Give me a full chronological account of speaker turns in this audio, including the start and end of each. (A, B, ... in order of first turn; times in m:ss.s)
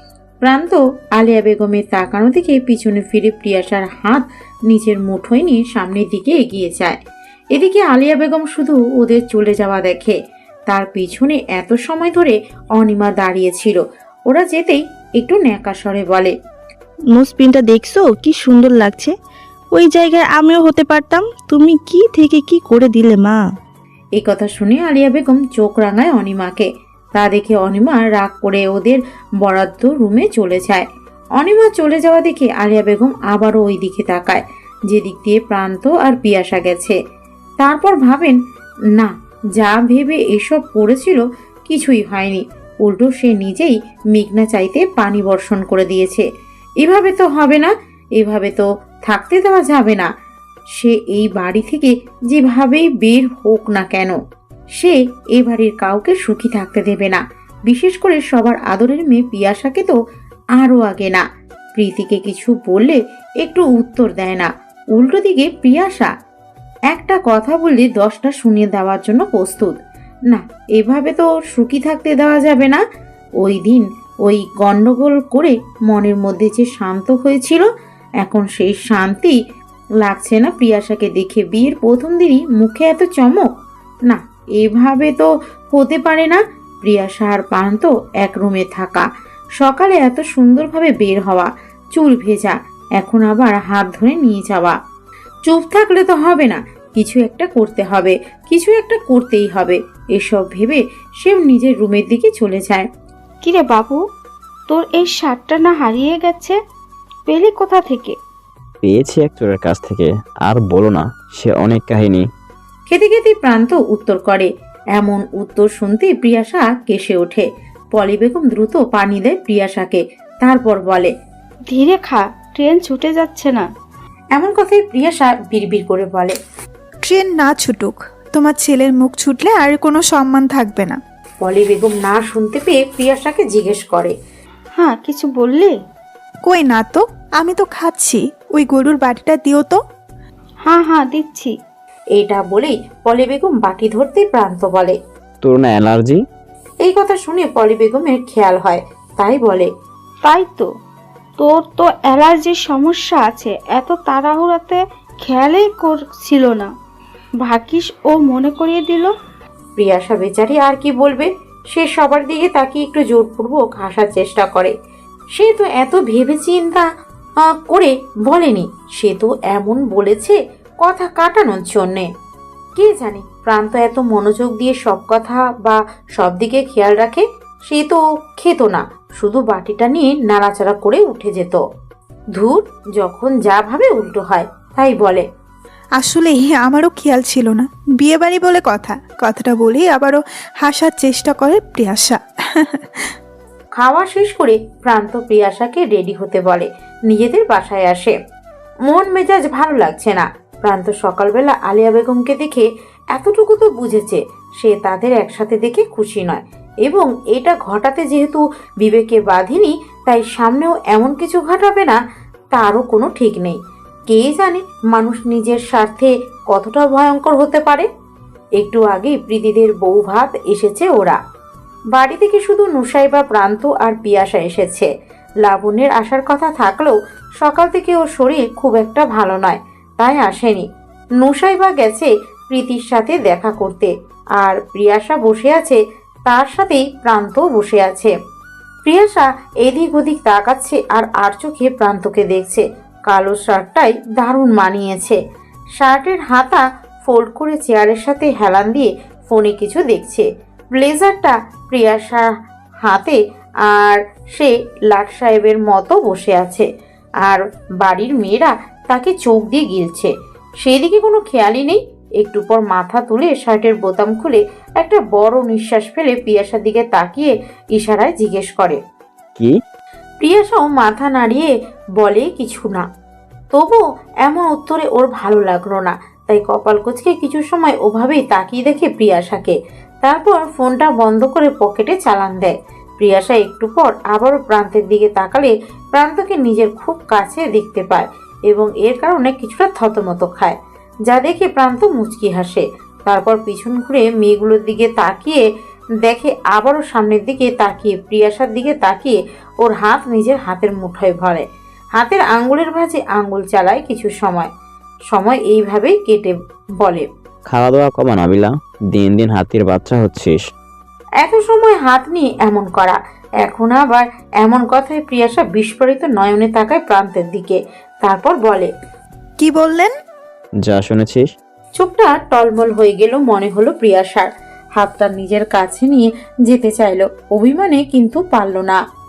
0:00.4-0:07.0 A
0:07.5-0:10.2 A
0:10.7-0:16.3 A
0:17.1-0:19.1 B
0:19.8-0:23.4 B
0:24.2-0:30.9 A
0:31.4-0:37.0 A
0:37.6-0:38.4 A
0:39.0-0:46.2 A
0:46.8-0:50.1 A
0:50.8-0:54.2 A
0:54.8-1:00.0 A
1:00.6-1:01.2 A
1:01.8-1:06.1 A
1:06.9-1:09.7 A
1:10.3-1:12.8 A
1:13.4-1:17.7 A
1:18.2-1:19.4 A
1:20.0-1:23.5 A
1:24.1-1:29.1 A
1:29.6-1:34.8 A
1:35.5-1:42.9 A
1:43.4-1:44.0 C
1:44.7-1:46.6 C
1:47.3-1:48.2 C
1:48.8-1:52.2 D
1:52.9-2:01.1 A
2:01.7-2:03.7 C
2:04.4-2:06.4 A
2:07.0-2:11.0 E
2:11.4-2:14.1 A
2:14.8-2:15.8 C
2:16.4-2:19.8 E
2:20.6-2:21.6 C
2:22.2-2:25.0 A
2:25.4-2:26.2 D
2:26.8-2:29.7 A
2:30.2-2:30.7 C
2:31.4-2:36.7 C
2:37.4-2:39.1 C
2:39.8-2:44.7 A
2:45.4-2:46.9 A
2:47.5-2:52.1 A
2:52.8-3:01.6 A
3:02.4-3:05.2 A
3:06.0-3:12.8 E
3:13.8-3:18.1 A
3:18.9-3:32.0 A
3:32.5-3:33.6 A
3:34.1-3:37.9 A
3:38.6-3:41.2 A
3:41.9-3:44.9 A
3:45.4-3:50.6 A
3:51.2-3:58.1 A
3:58.8-4:05.2 A
4:05.8-4:12.3 A
4:12.8-4:16.7 A
4:17.3-4:28.8 A
4:30.2-4:32.8 A
4:33.5-4:50.6 A
4:51.1-4:55.4 A
4:56.1-5:01.4 A
5:02.0-5:04.5 A
5:05.1-5:07.1 A
5:07.5-5:10.4 D
5:11.2-5:18.7 A
5:19.4-5:19.9 E
5:20.6-5:21.3 D
5:21.8-5:28.8 A